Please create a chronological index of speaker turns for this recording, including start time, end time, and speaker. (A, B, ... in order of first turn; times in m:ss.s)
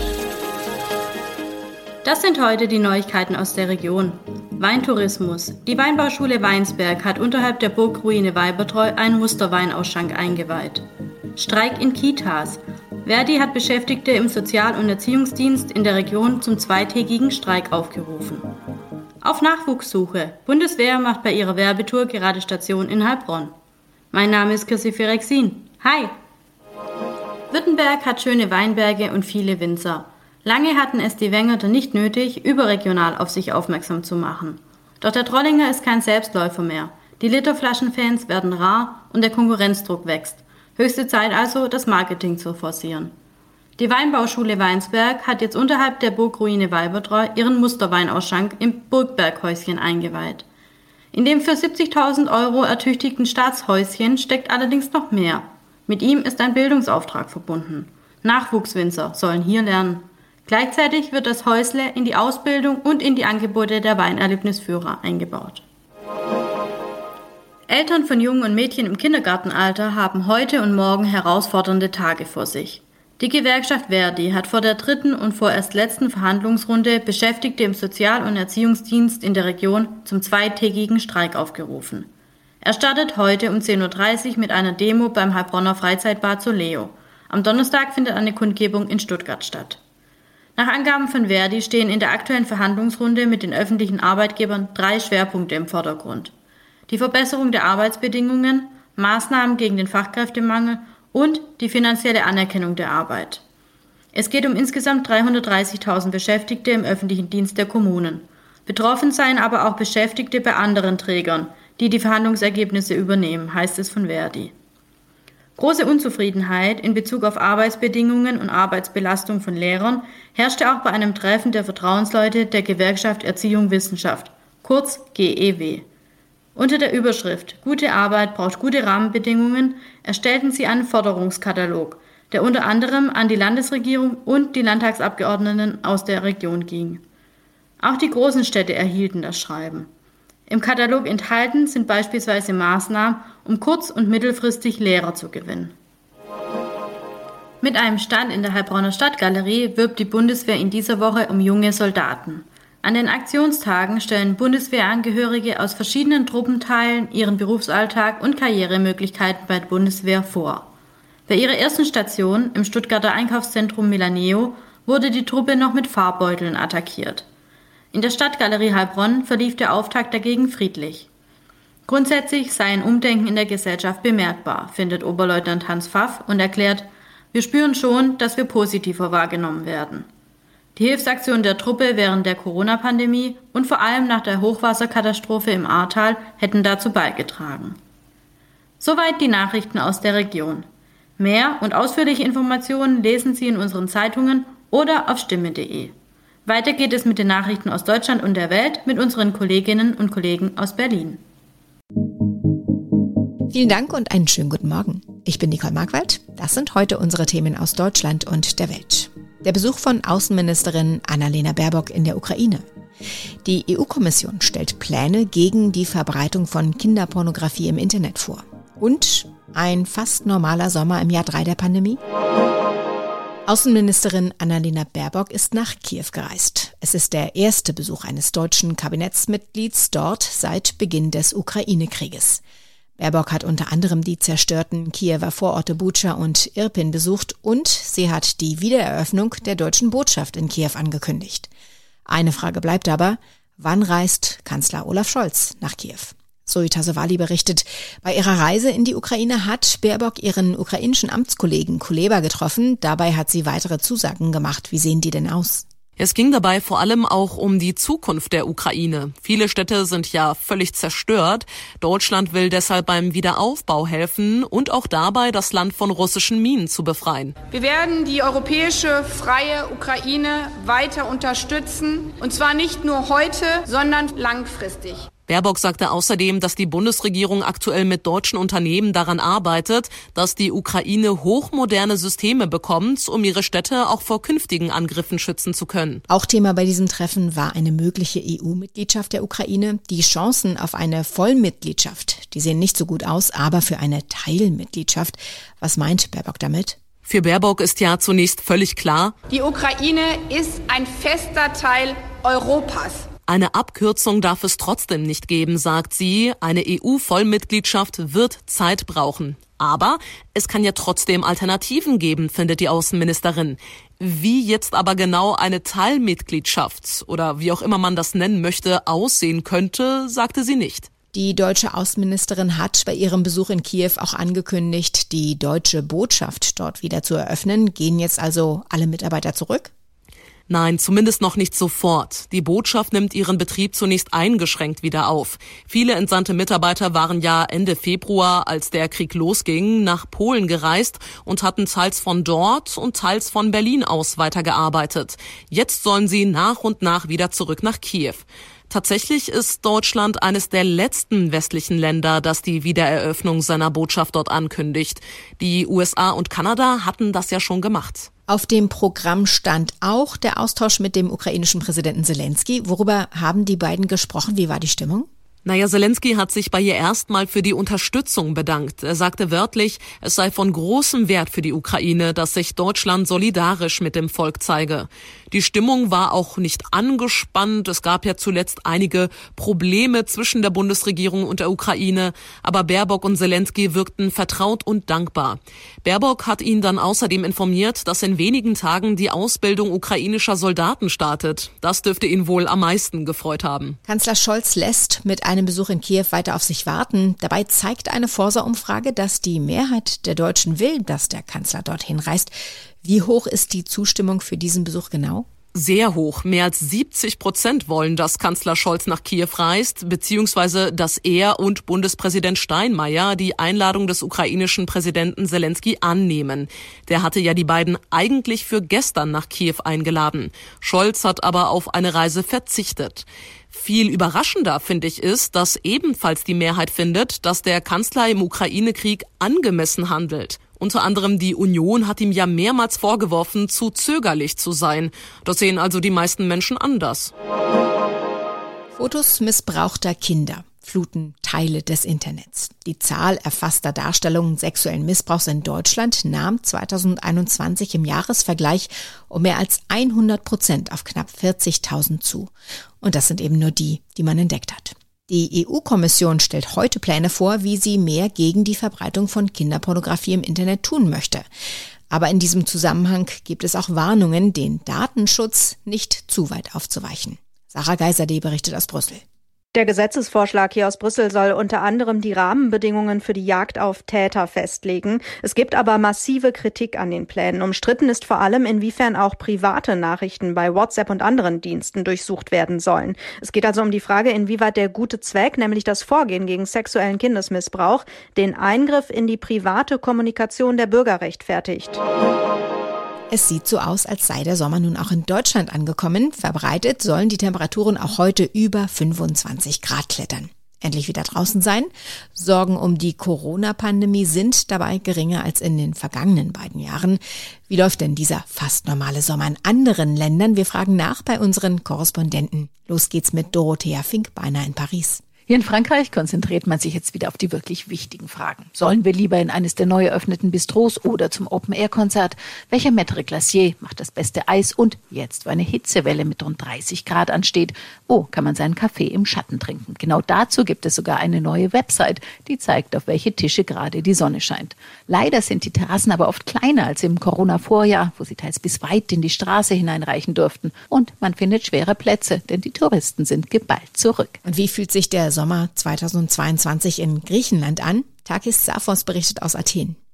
0:02.0-0:10.8 A
0:11.4-0:18.5 A
0:19.2-0:23.5 A
0:24.1-0:26.1 A
0:27.5-0:43.1 A
0:43.8-0:50.4 A
0:51.1-1:05.6 A
1:07.7-1:22.1 A
1:22.6-1:29.8 A
1:30.6-1:36.3 A
1:36.9-1:43.4 A
1:44.1-1:54.5 A
1:55.6-2:05.8 A
2:06.6-2:17.0 A
2:17.8-2:19.9 A
2:20.5-2:25.8 A
2:27.6-2:40.7 A
2:41.3-2:47.3 A
2:47.9-2:51.1 A
2:51.9-3:00.1 A
3:00.8-3:07.8 A
3:08.8-3:10.6 A
3:11.2-3:15.9 A
3:16.5-3:21.2 A
3:23.5-3:32.6 B
3:33.4-3:42.0 B
3:43.5-3:52.4 B
3:53.0-4:01.5 B
4:02.1-4:15.6 B
4:16.0-4:27.3 C
4:27.5-4:35.1 D
4:35.3-4:46.0 C
4:46.1-4:56.8 B
4:57.1-4:59.1 C
4:59.3-5:03.1 D
5:03.3-5:20.9 C
5:21.1-5:29.7 B
5:30.5-5:58.1 C
5:58.3-6:05.1 B
6:05.4-6:33.8 C
6:33.8-6:45.3 B
6:45.6-7:17.1 C
7:18.8-7:41.3 B
7:41.9-7:49.0 B
7:49.5-8:11.8 E
8:13.1-8:35.0 B
8:35.3-9:04.2 F
9:04.2-9:09.8 B